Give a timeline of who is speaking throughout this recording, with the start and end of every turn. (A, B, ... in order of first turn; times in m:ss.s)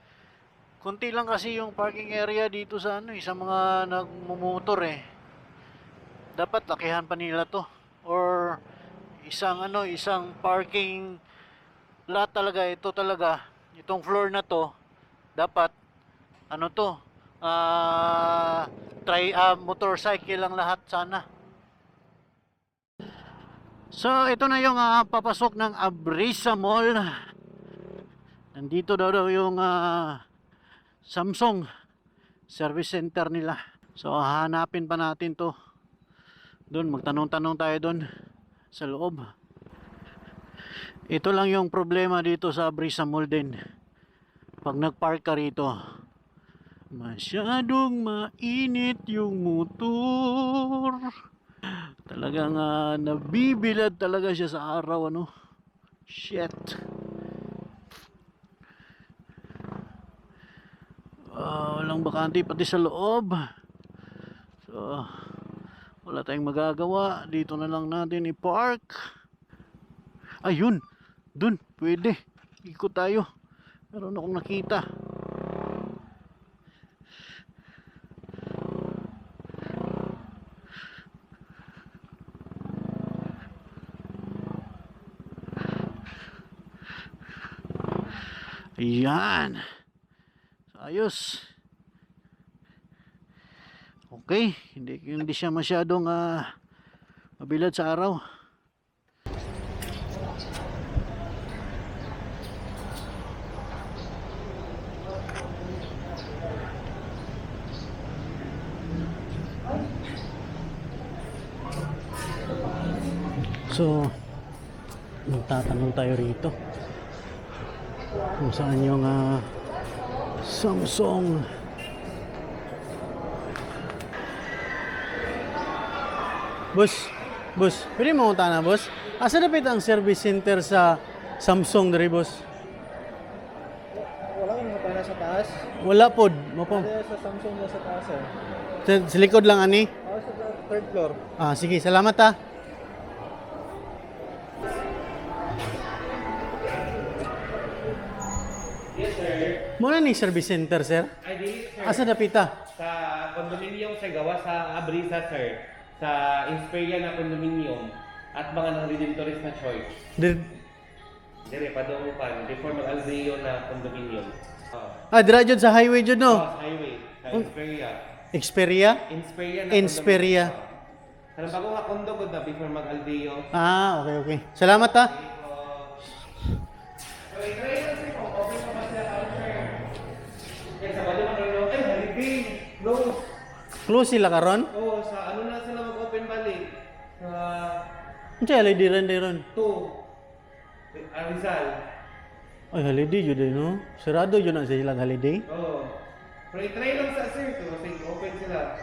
0:00.8-0:05.0 A
0:06.4-0:08.6 A
0:09.2-0:11.2 A
0:12.1-0:14.7 A
0:15.4-0:15.7 A
0:16.5-0:16.9 A
0:17.4-0:21.2 A
0:23.9-0:27.1 A
0:28.5-0:30.2 A
0:31.1-0:31.6 A
0:32.5-0:35.5 A
0:36.7-0:38.0 A
0:38.7-0:39.3 A
0:41.1-0:43.6 A
0:44.6-0:45.7 A
0:47.0-0:51.1 A
0:52.1-0:55.3 A
0:56.1-0:56.7 A
1:01.4-1:03.4 A
1:04.6-1:05.1 A
1:06.0-1:09.0 A
1:10.4-1:10.8 A
1:11.4-1:13.2 A
1:13.9-1:14.8 A
1:28.8-1:29.6 A
1:30.7-1:31.4 A
1:34.1-1:36.4 A
1:37.4-1:38.2 A
1:53.7-1:54.1 A
1:55.3-1:56.5 A
1:58.4-1:59.5 A
2:00.4-2:01.5 A
2:06.7-2:12.4 A
2:14.5-2:15.4 B
2:14.7-2:15.3 C
2:15.8-2:17.1 A
2:17.2-2:18.0 B
2:18.8-2:19.9 A
2:20.6-2:21.0 B
2:21.4-2:22.3 A
2:28.9-2:29.7 C
2:29.8-2:31.1 A
2:31.2-2:32.1 C
2:31.8-2:32.6 A
2:32.7-2:39.9 C
2:40.2-2:40.5 A
2:41.4-2:45.0 C
2:45.1-2:46.4 A
2:46.3-2:48.0 C
2:48.3-2:49.0 A
2:49.1-2:50.6 C
2:49.7-2:50.5 A
2:51.4-2:53.4 C
2:53.5-2:55.1 A
2:55.1-2:55.9 C
2:57.3-2:59.8 C
3:00.8-3:03.3 C
3:03.8-3:04.7 A
3:04.7-3:07.8 C
3:08.4-3:09.4 A
3:09.5-3:10.0 C
3:10.9-3:11.8 C
3:12.7-3:15.4 A
3:15.5-3:16.0 C
3:16.5-3:18.7 C